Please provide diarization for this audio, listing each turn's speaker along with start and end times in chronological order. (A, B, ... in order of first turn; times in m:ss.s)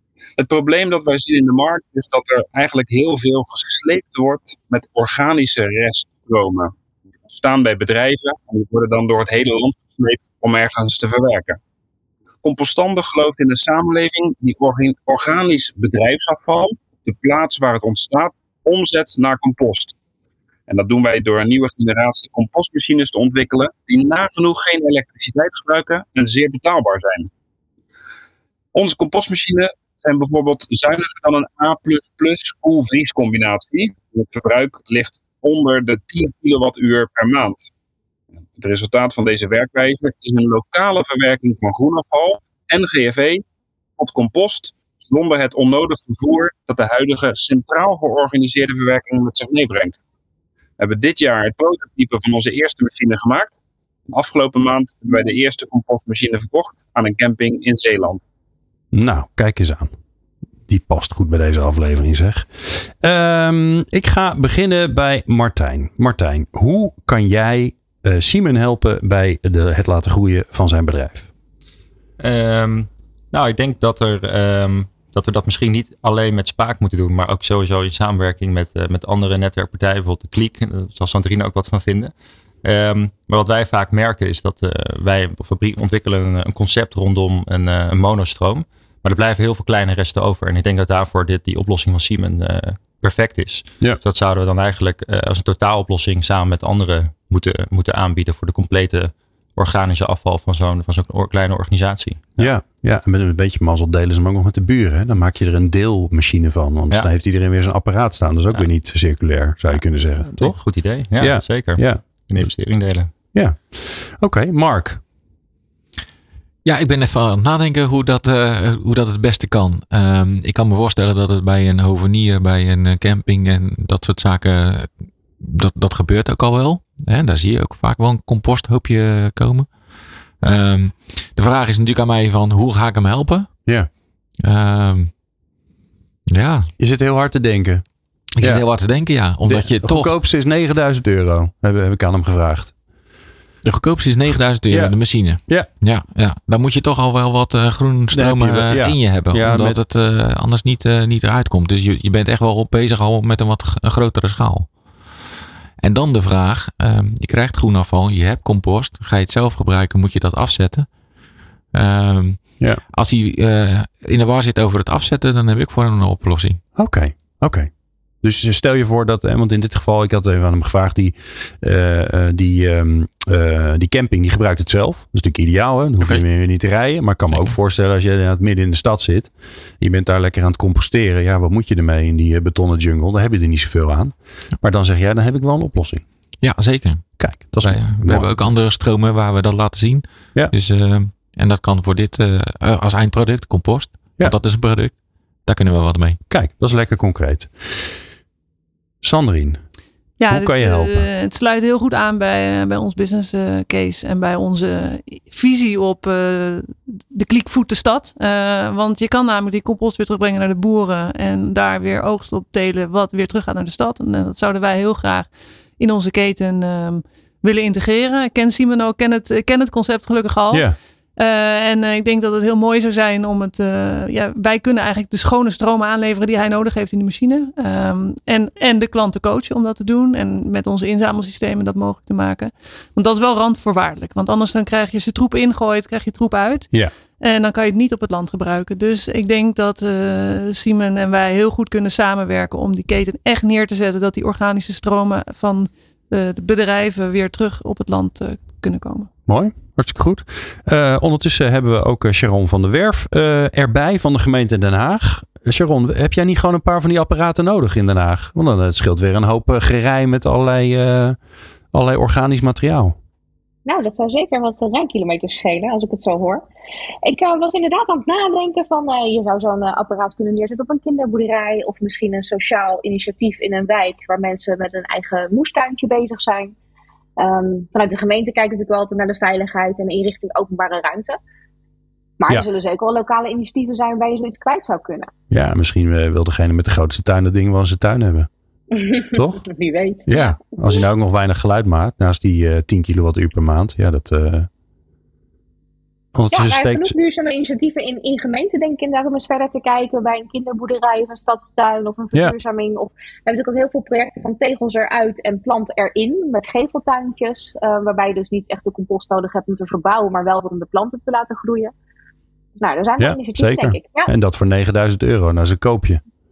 0:00.4-0:06.7 A
0:07.3-0:11.6 A
0:12.4-0:20.0 A
0:20.7-0:27.3 A
0:28.7-0:37.7 A
0:38.6-0:43.4 A
0:44.0-0:50.0 A
0:50.8-0:53.6 A
0:54.1-0:58.2 A
0:58.9-0:59.9 B
1:00.7-1:11.3 B
1:12.2-1:42.3 C
1:42.4-1:52.5 B
1:49.7-1:53.1 C
1:53.3-1:55.0 B
1:56.6-2:13.6 D
2:14.4-2:15.1 D
2:16.3-2:16.7 D
2:16.8-2:17.8 B
2:18.4-2:20.1 D
2:18.4-2:18.7 B
2:19.4-2:22.8 B
2:23.6-2:35.2 D
2:24.7-2:25.7 B
2:28.1-2:29.8 B
2:35.8-2:41.0 D
2:41.7-2:46.6 D
2:46.8-2:47.7 B
2:48.2-3:06.0 B
2:57.3-2:57.6 D
3:06.4-3:16.2 D
3:07.2-3:08.4 B
3:16.3-3:18.0 B
3:19.0-3:19.6 B
3:20.2-4:09.1 E
3:20.3-3:21.1 B
4:09.3-4:21.2 B
4:21.7-4:23.0 B
4:23.7-4:26.4 F
4:27.0-4:36.5 F
4:37.2-4:41.2 F
4:42.2-4:45.1 F
4:45.3-4:48.3 B
4:48.7-4:50.3 F
4:49.1-4:49.5 B
4:50.1-4:54.5 B
4:56.1-4:57.0 B
4:56.3-5:11.7 F
5:12.6-5:14.1 F
5:13.0-5:16.0 B